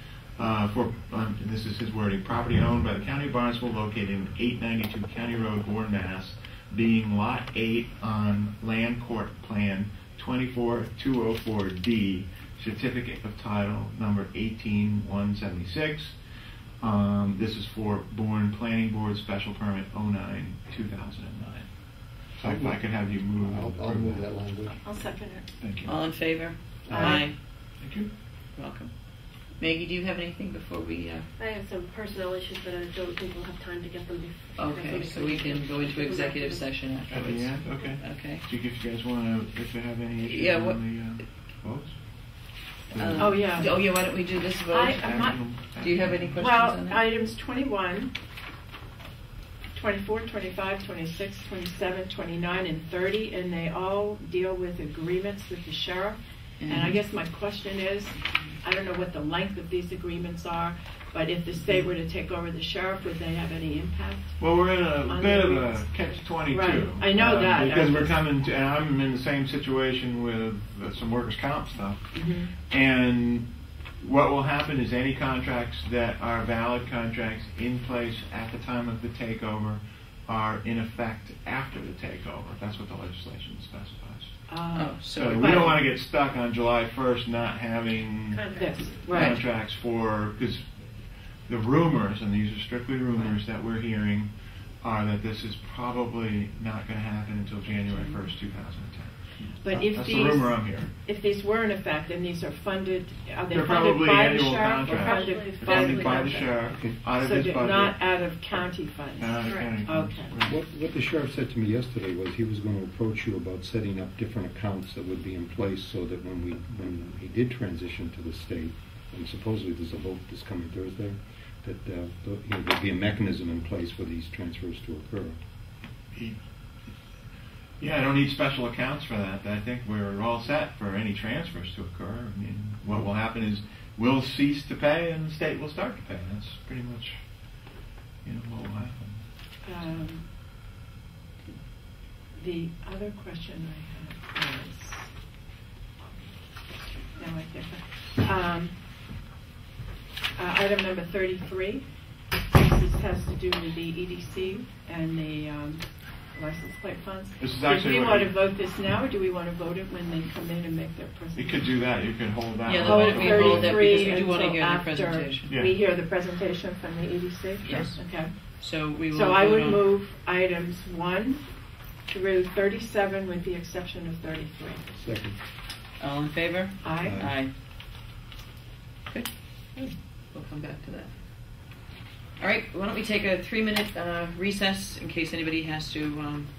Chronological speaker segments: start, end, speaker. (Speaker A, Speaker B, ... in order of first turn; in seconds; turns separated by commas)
Speaker A: 0.4-16.2, Speaker A: 16.8-21.7, Speaker A: 22.3-24.3, Speaker B: 22.4-22.9, Speaker B: 23.4-24.8, Speaker C: 24.8-25.5, Speaker A: 25.6-25.9, Speaker D: 25.9-27.4, Speaker A: 26.9-28.1, Speaker C: 26.9-27.3, Speaker D: 28.6-28.9, Speaker D: 29.6-31.3, Speaker E: 31.4-36.7, Speaker D: 34.6-38.4, Speaker A: 37.1-42.0, Speaker D: 40.2-40.8, Speaker A: 42.9-43.6, Speaker D: 43.0-47.0, Speaker C: 43.2-43.8, Speaker C: 44.7-45.5, Speaker A: 45.0-46.5, Speaker C: 46.4-48.1, Speaker C: 49.7-64.4, Speaker D: 56.6-57.0, Speaker A: 64.4-73.5, Speaker C: 65.0-68.2, Speaker C: 72.1-72.5, Speaker A: 74.0-84.3, Speaker C: 84.5-85.8, Speaker D: 84.8-85.8, Speaker A: 85.1-90.7, Speaker E: 88.3-89.0, Speaker C: 88.5-89.4, Speaker D: 89.1-89.4, Speaker A: 91.5-100.9, Speaker C: 99.6-110.3, Speaker A: 103.5-108.0, Speaker E: 104.8-106.8, Speaker A: 109.2-110.6, Speaker E: 109.4-109.7, Speaker B: 110.4-125.4, Speaker A: 126.1-126.4, Speaker A: 127.8-137.2, Speaker A: 138.2-139.2, Speaker C: 139.6-140.3, Speaker C: 142.4-145.1, Speaker C: 147.2-148.8, Speaker C: 150.4-151.8, Speaker C: 152.5-161.7, Speaker A: 157.4-158.4, Speaker A: 161.4-163.9, Speaker D: 162.7-165.5, Speaker C: 162.8-168.3, Speaker A: 165.5-165.8, Speaker A: 167.6-167.9, Speaker D: 167.7-168.0, Speaker D: 168.6-169.9, Speaker C: 169.1-171.5, Speaker C: 172.1-174.9, Speaker B: 174.9-175.4, Speaker D: 176.0-177.5, Speaker C: 176.8-177.2, Speaker B: 177.0-177.4, Speaker D: 179.1-181.1, Speaker D: 182.4-186.5